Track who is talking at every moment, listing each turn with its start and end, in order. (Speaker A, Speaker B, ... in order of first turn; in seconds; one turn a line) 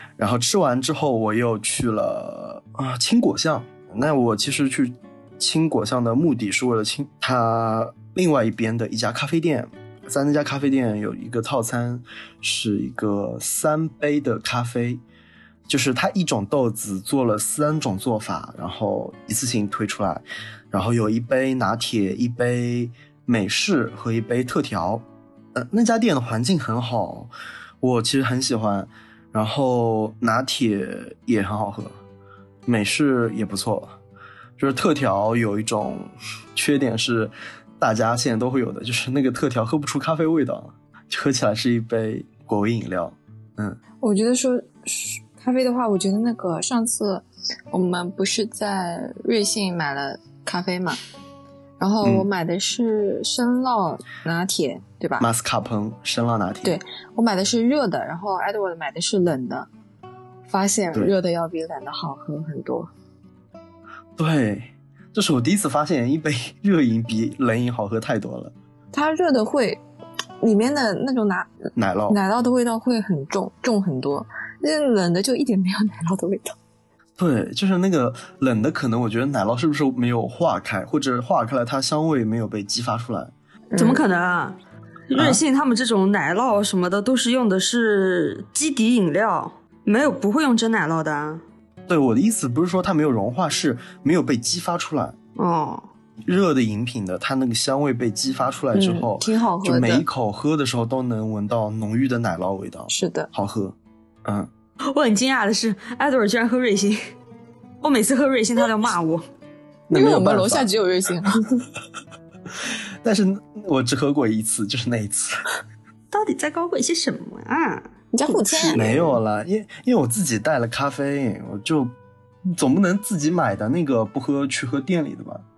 Speaker A: 0.2-15.0
Speaker A: 15.7-27.3
Speaker A: 27.8-32.0
Speaker A: 32.6-33.9
Speaker A: 34.6-43.8
Speaker B: 44.0-51.0
Speaker B: 51.8-55.3
Speaker A: 52.0-52.3
Speaker A: 55.2-56.8
Speaker B: 56.6-59.7
Speaker B: 60.5-62.9
Speaker A: 64.2-68.5
Speaker B: 68.9-69.8
Speaker B: 70.4-71.5
Speaker A: 71.8-72.2
Speaker B: 72.1-76.5
Speaker A: 77.2-83.3
Speaker B: 83.7-84.0
Speaker C: 83.8-84.6
Speaker C: 85.1-91.4
Speaker A: 91.9-95.2
Speaker C: 95.3-95.9
Speaker A: 96.2-104.5
Speaker B: 98.7-100.0
Speaker B: 102.9-103.3
Speaker C: 104.9-107.0
Speaker C: 107.8-109.2
Speaker A: 109.9-110.7
Speaker B: 109.9-111.4
Speaker A: 112.6-115.5
Speaker C: 116.1-119.0
Speaker B: 118.1-119.1
Speaker A: 118.7-121.9
Speaker A: 122.5-125.4